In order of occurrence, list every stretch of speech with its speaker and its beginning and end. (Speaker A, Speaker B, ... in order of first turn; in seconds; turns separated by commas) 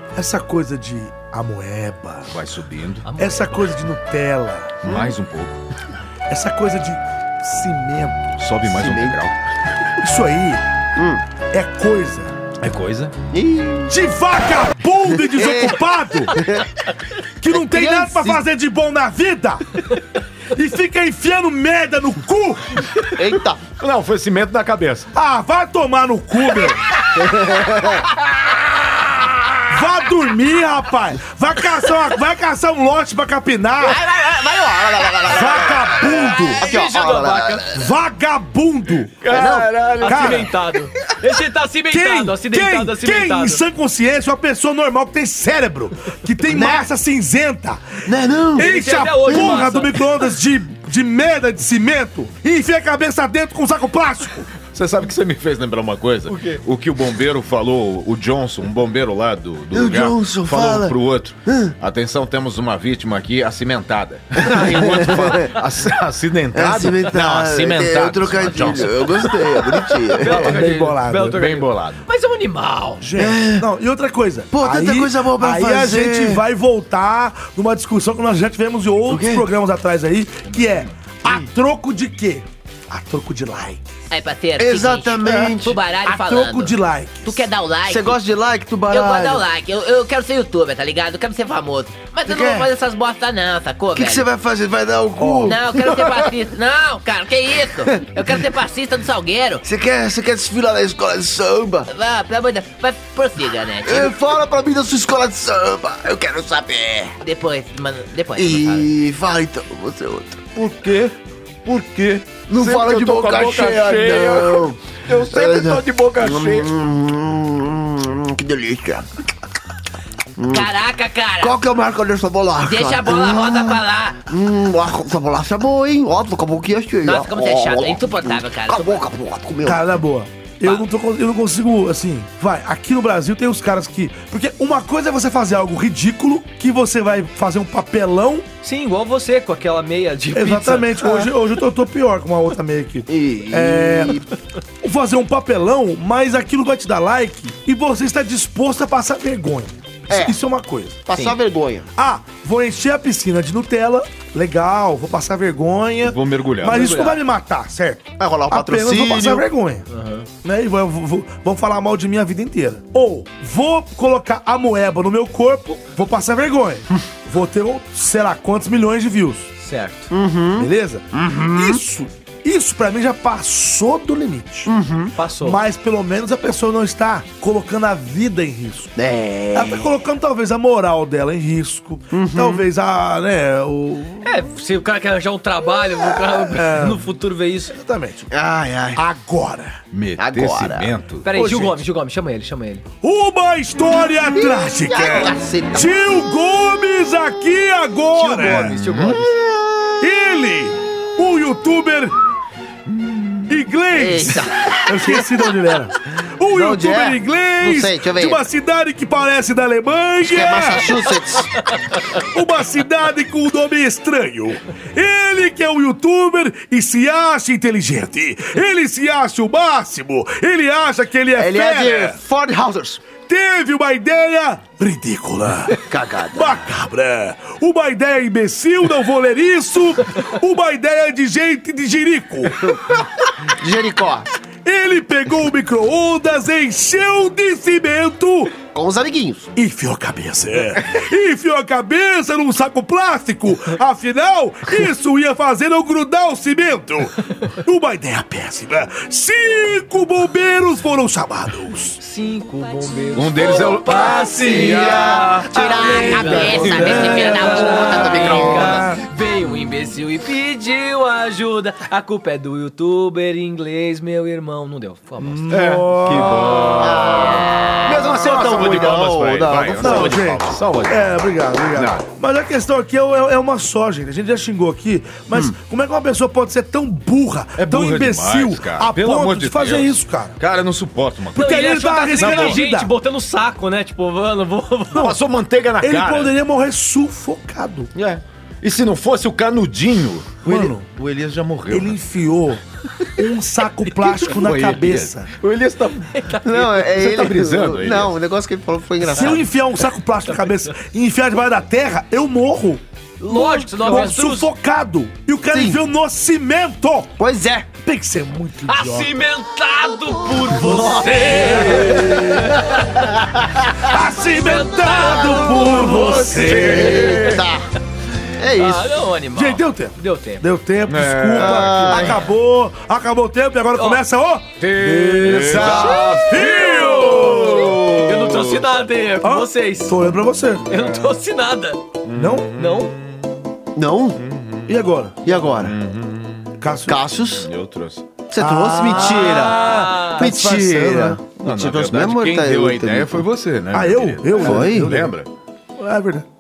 Speaker A: 0.1-2.4, Speaker B: 2.3-3.0, Speaker C: 3.0-3.8, Speaker A: 3.2-4.8, Speaker B: 4.8-5.6, Speaker A: 6.3-8.3, Speaker B: 8.4-9.3, Speaker D: 8.6-9.2, Speaker A: 10.0-10.6, Speaker D: 10.9-11.2, Speaker A: 11.5-12.3, Speaker B: 12.6-13.1, Speaker D: 13.3-13.9, Speaker A: 13.9-16.4, Speaker D: 15.2-15.8, Speaker D: 16.3-16.7, Speaker A: 17.4-19.8, Speaker D: 17.5-18.4, Speaker A: 20.5-22.9, Speaker D: 23.1-23.6, Speaker B: 23.8-25.1, Speaker A: 25.1-26.8, Speaker D: 27.1-28.1, Speaker A: 29.7-34.0, Speaker D: 33.8-37.8, Speaker A: 35.3-36.6, Speaker C: 36.6-37.6, Speaker A: 37.7-39.2, Speaker B: 39.2-40.4, Speaker D: 39.3-39.7, Speaker C: 40.0-43.6, Speaker A: 40.0-40.5, Speaker A: 41.9-54.5, Speaker D: 46.5-46.8, Speaker D: 48.0-48.7, Speaker C: 48.6-50.0, Speaker D: 49.3-49.6, Speaker B: 54.7-70.5, Speaker C: 56.3-56.6, Speaker D: 59.7-60.9, Speaker D: 61.5-61.7, Speaker D: 64.4-65.5, Speaker D: 66.5-70.4, Speaker C: 70.1-73.0, Speaker A: 70.2-71.4, Speaker B: 71.3-72.0, Speaker A: 73.0-83.8, Speaker D: 73.2-73.7, Speaker D: 74.5-76.4, Speaker D: 79.1-79.4, Speaker E: 84.1-86.7, Speaker D: 84.6-85.8, Speaker A: 86.0-87.4, Speaker E: 87.2-88.2, Speaker D: 87.8-89.4, Speaker E: 88.9-94.3, Speaker D: 92.2-92.7, Speaker D: 93.9-96.2, Speaker A: 95.2-95.6, Speaker E: 95.4-99.6, Speaker D: 99.6-101.9, Speaker E: 101.9-104.1, Speaker D: 103.8-107.1, Speaker E: 107.2-108.9, Speaker D: 108.4-110.4, Speaker B: 110.5-116.7, Speaker D: 112.5-114.8, Speaker D: 115.3-119.1, Speaker D: 120.4-120.7, Speaker E: 120.5-121.6, Speaker D: 121.4-129.8, Speaker E: 122.6-124.2, Speaker E: 127.0-129.0, Speaker A: 129.6-138.4, Speaker C: 138.6-141.3, Speaker A: 140.3-144.2, Speaker D: 143.1-144.3, Speaker A: 144.8-151.0, Speaker D: 150.1-150.3, Speaker D: 151.1-151.9, Speaker A: 152.0-159.8, Speaker B: 156.1-156.9, Speaker C: 156.7-157.2, Speaker D: 158.2-159.4, Speaker C: 159.9-160.3, Speaker A: 160.4-169.5, Speaker C: 169.6-170.1, Speaker D: 170.1-171.8, Speaker A: 170.6-174.7, Speaker D: 174.7-175.1, Speaker C: 175.1-175.6, Speaker A: 175.4-178.9, Speaker D: 178.9-179.9, Speaker A: 179.5-184.3, Speaker D: 182.1-182.6, Speaker C: 184.2-187.7, Speaker A: 186.2-187.0, Speaker A: 187.7-188.3, Speaker D: 188.3-189.0, Speaker A: 188.9-189.8, Speaker B: 189.9-191.2, Speaker D: 190.2-190.9, Speaker C: 191.2-192.8, Speaker A: 191.3-191.8, Speaker A: 193.0-198.8, Speaker D: 194.3-195.9, Speaker C: 198.2-199.2, Speaker B: 198.6-199.2, Speaker D: 198.8-199.9, Speaker A: 200.0-202.1, Speaker B: 203.0-203.4, Speaker A: 203.5-211.0, Speaker D: 203.9-205.2, Speaker D: 206.5-208.4, Speaker D: 210.2-211.7, Speaker A: 212.3-222.2, Speaker D: 221.3-223.0, Speaker A: 223.2-225.8, Speaker D: 225.7-226.6, Speaker A: 226.3-232.8, Speaker D: 233.5-234.3, Speaker A: 234.6-238.5, Speaker D: 238.7-239.5, Speaker A: 239.6-252.0, Speaker C: 252.0-265.6, Speaker B: 253.1-256.9, Speaker D: 254.2-256.0, Speaker E: 255.5-258.8, Speaker A: 256.5-259.0, Speaker D: 257.5-258.8, Speaker A: 265.2-266.7, Speaker B: 265.5-271.1, Speaker D: 266.7-270.2, Speaker A: 269.8-280.4, Speaker B: 271.7-272.0, Speaker B: 277.6-281.6, Speaker A: 281.3-282.9, Speaker C: 281.3-285.1, Speaker B: 282.1-282.6, Speaker A: 284.9-285.2, Speaker B: 284.9-286.3, Speaker A: 285.8-287.9, Speaker B: 287.9-292.0, Speaker A: 290.4-290.9, Speaker A: 291.7-292.6, Speaker A: 293.1-295.3, Speaker B: 294.1-296.2, Speaker C: 296.1-296.9, Speaker D: 296.4-299.4, Speaker B: 296.8-298.1, Speaker A: 299.0-307.2, Speaker C: 300.3-300.8, Speaker C: 303.2-304.5, Speaker D: 305.5-305.8, Speaker D: 307.2-307.7, Speaker A: 307.8-309.1, Speaker C: 308.7-313.1, Speaker D: 310.7-312.5, Speaker B: 310.9-312.2, Speaker A: 311.3-312.0, Speaker A: 313.8-317.2, Speaker C: 314.2-316.5, Speaker D: 314.9-317.6, Speaker B: 315.6-317.4, Speaker D: 318.4-318.9, Speaker C: 318.6-320.4, Speaker A: 319.3-327.7, Speaker B: 320.9-322.2, Speaker D: 321.4-322.2, Speaker C: 323.8-324.0, Speaker B: 324.6-328.7, Speaker C: 325.4-330.0, Speaker A: 329.2-330.7, Speaker C: 330.7-331.8, Speaker B: 330.7-331.1, Speaker B: 332.0-333.3, Speaker A: 332.1-332.5, Speaker C: 332.6-332.9, Speaker D: 333.7-334.2, Speaker B: 334.2-334.8, Speaker A: 334.7-335.2, Speaker D: 335.2-335.8, Speaker B: 335.4-336.6, Speaker A: 336.6-337.1, Speaker D: 336.9-337.5, Speaker B: 337.3-338.0, Speaker D: 338.3-343.2, Speaker A: 338.4-341.2, Speaker C: 338.9-340.3, Speaker B: 341.4-345.3, Speaker A: 343.7-345.1, Speaker D: 344.4-345.0, Speaker A: 345.8-346.3